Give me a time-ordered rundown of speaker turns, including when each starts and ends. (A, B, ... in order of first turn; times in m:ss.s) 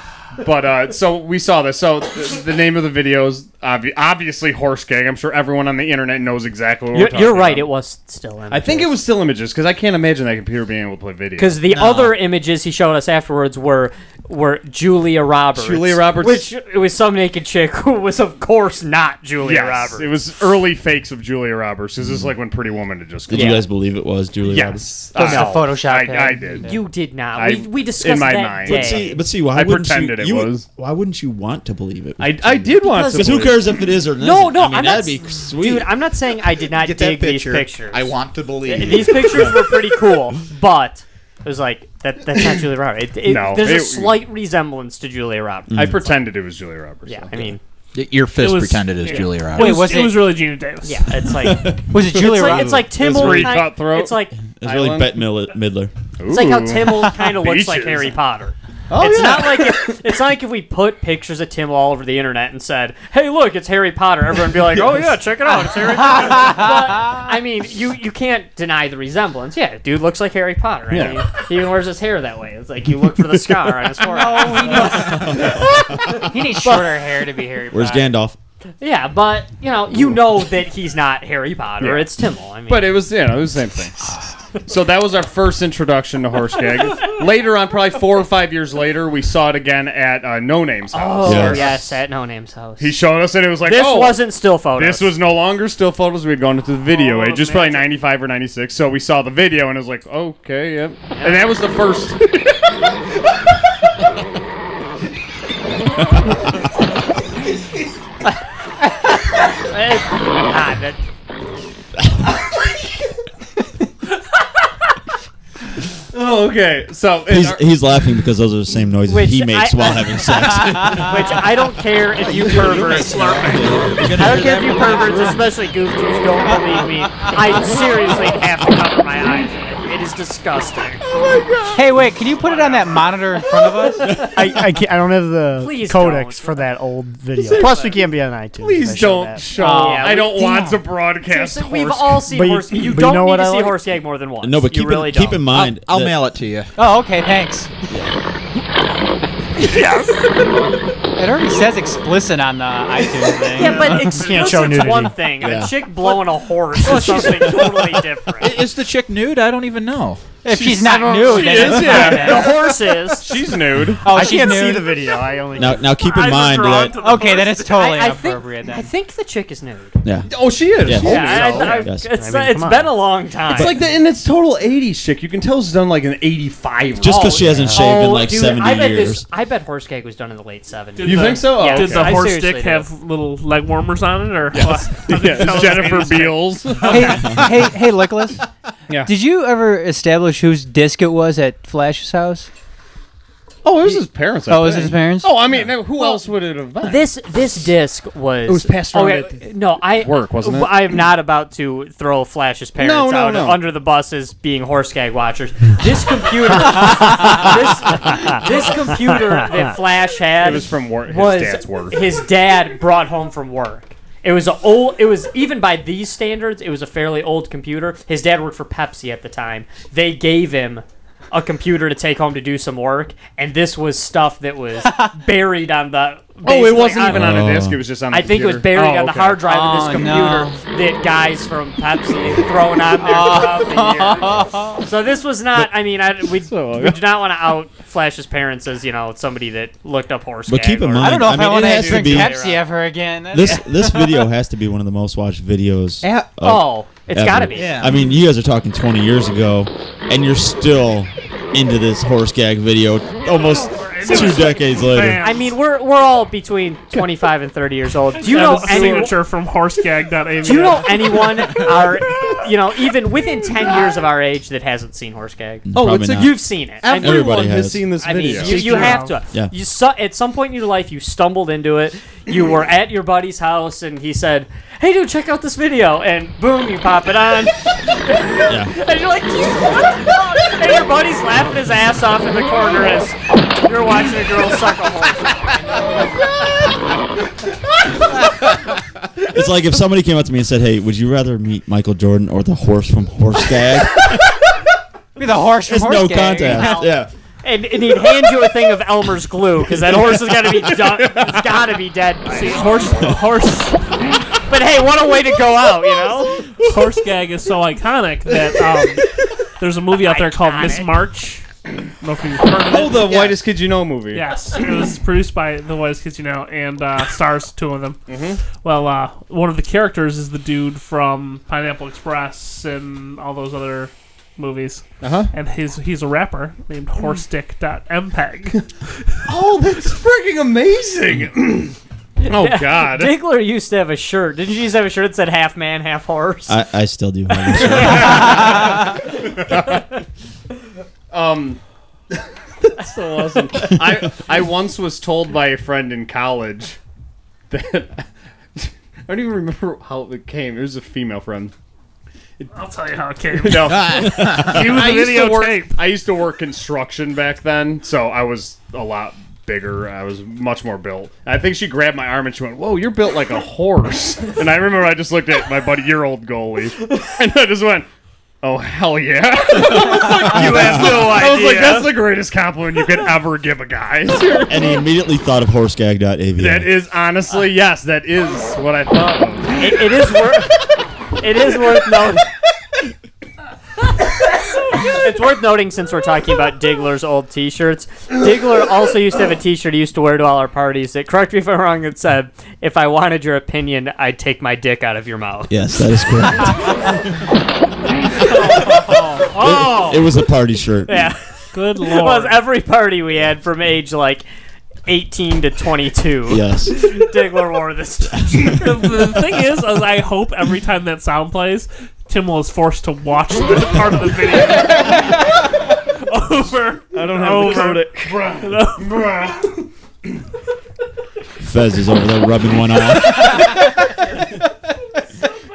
0:00.4-0:07.7 A
0:06.9-0:08.9 B
0:08.5-0:12.0 A
0:11.4-0:20.1 B
0:15.6-0:16.5 A
0:19.4-0:23.6 A
0:23.3-0:24.9 C
0:23.3-0:23.6 B
0:24.4-0:26.7 A
0:25.1-0:26.8 D
0:25.2-0:25.7 B
0:26.6-0:29.2 B
0:27.3-0:30.6 A
0:28.6-0:35.9 C
0:32.2-0:33.6 A
0:32.8-0:33.6 B
0:34.2-0:38.1 B
0:36.7-0:39.6 E
0:38.6-0:46.2 B
0:43.2-0:44.2 A
0:45.7-0:46.0 C
0:45.7-0:47.5 A
0:47.0-0:47.6 B
0:47.9-0:50.0 E
0:48.3-0:51.4 F
0:49.5-0:50.4 D
0:50.8-0:54.3 B
0:51.2-0:52.0 C
0:51.8-0:52.9 D
0:52.4-0:55.2 A
0:53.0-0:53.5 C
0:54.6-0:55.9 C
0:56.2-0:58.2 A
0:56.3-1:15.5 B
0:58.9-1:00.0 A
1:06.0-1:07.2 D
1:10.9-1:11.2 A
1:14.0-1:15.4 D
1:15.2-1:16.2 C
1:16.1-1:17.0 B
1:16.1-1:18.1 D
1:17.7-1:18.4 C
1:18.8-1:23.0 B
1:21.8-1:22.1 A
1:22.7-1:24.1 A
1:24.6-1:31.9 A
1:30.9-1:33.0 B
1:31.2-1:31.6 C
1:32.8-1:42.6 A
1:33.6-1:35.1 B
1:36.9-1:37.9 F
1:41.2-1:41.5 B
1:49.0-1:51.0 B
1:56.1-1:57.6 A
1:57.3-2:01.4 C
1:59.1-2:03.4 B
2:02.2-2:05.4 E
2:03.2-2:04.5 C
2:04.2-2:11.0 B
2:11.7-2:14.2 D
2:12.6-2:13.0 B
2:14.1-2:19.8 G
2:15.6-2:16.6 B
2:17.4-2:18.0 A
2:17.6-2:18.0 B
2:18.6-2:22.2 A
2:19.5-2:20.8 D
2:19.7-2:20.7 B
2:21.3-2:25.4 B
2:22.3-2:23.8 G
2:24.4-2:26.2 C
2:25.5-2:26.7 E
2:26.8-2:27.7 D
2:27.9-2:28.2 C
2:31.2-2:34.6 D
2:33.5-2:38.6 B
2:33.7-2:35.1 G
2:35.4-2:35.8 C
2:38.4-2:40.2 E
2:40.4-2:42.6 D
2:40.5-2:42.5 A
2:40.8-2:43.3 B
2:43.2-2:44.3 A
2:44.0-2:45.0 D
2:44.0-2:45.9 G
2:45.5-2:47.0 C
2:45.9-2:47.9 F
2:46.9-2:48.9 D
2:47.7-2:49.9 B
2:50.0-2:52.2 C
2:50.3-2:51.7 A
2:51.0-2:53.0 G
2:51.0-2:53.7 B
2:53.5-2:53.9 C
2:53.5-2:57.5 A
2:57.0-2:59.3 C
2:57.0-3:02.9 B
3:01.0-3:07.1 F
3:01.0-3:02.2 A
3:04.6-3:07.5 A
3:06.8-3:08.4 D
3:09.0-3:12.5 D
3:13.6-3:17.1 A
3:14.5-3:15.4 D
3:16.8-3:47.4 B
3:18.5-3:21.0 A
3:22.8-3:23.6 A
3:30.4-3:32.0 A
3:44.8-3:45.1 D
3:46.4-3:49.5 A
3:47.0-3:47.8 C
3:48.1-4:02.7 B
3:49.4-3:50.6 D
3:53.0-3:54.8 D
3:56.5-3:57.0 A
4:00.5-4:02.4 C
4:01.0-4:04.2 D
4:03.3-4:15.2 C
4:06.4-4:07.9 B
4:07.5-4:08.0 E
4:13.4-4:15.6 F
4:14.1-4:14.4 B
4:15.2-4:19.2 B
4:18.2-4:21.2 F
4:18.2-4:19.1 A
4:20.4-4:27.4 B
4:25.7-4:28.2 C
4:25.7-4:29.0 A
4:28.0-4:46.1 B
4:28.4-4:29.2 F
4:38.5-4:38.7 C
4:49.3-4:54.3 C
4:55.2-4:56.9 D
4:55.7-4:57.1 C
4:56.5-4:56.9 B
4:57.4-5:02.8 B
5:02.3-5:03.8 F
5:04.5-5:06.4 B
5:06.6-5:11.4 F
5:10.0-5:10.9 B
5:12.0-5:13.2 F
5:12.7-5:14.3 A
5:14.1-5:18.0 F
5:18.1-5:18.4 A
5:18.5-5:29.1 F
5:25.0-5:25.3 A
5:29.3-5:31.8 A
5:32.2-5:36.6 B
5:32.3-5:33.1 A
5:36.5-5:38.6 C
5:37.3-5:38.4 B
5:38.0-5:38.8 A
5:39.3-5:39.8 A
5:41.1-5:41.6 A
5:42.6-5:46.8 A
5:47.5-5:48.0 A
5:48.6-5:51.5 A
5:52.5-5:55.8 F
5:53.4-6:07.9 A
5:53.9-5:54.8 E
6:08.4-6:14.8 A
6:09.6-6:11.2 C
6:09.8-6:11.9 B
6:14.4-6:16.7 C
6:16.4-6:19.5 A
6:19.6-6:20.6 B
6:21.2-6:22.2 B
6:24.8-6:35.6 B
6:35.5-6:37.0 C
6:38.6-6:40.1 B
6:39.3-6:41.0 C
6:40.8-6:44.2 B
6:41.5-6:42.4 F
6:44.9-6:48.5 B
6:46.3-6:46.8 C
6:48.3-6:48.7 C
6:48.6-6:55.2 F
6:56.0-6:59.0 F
6:56.9-6:58.2 A
6:57.1-6:58.2 G
7:01.4-7:03.5 C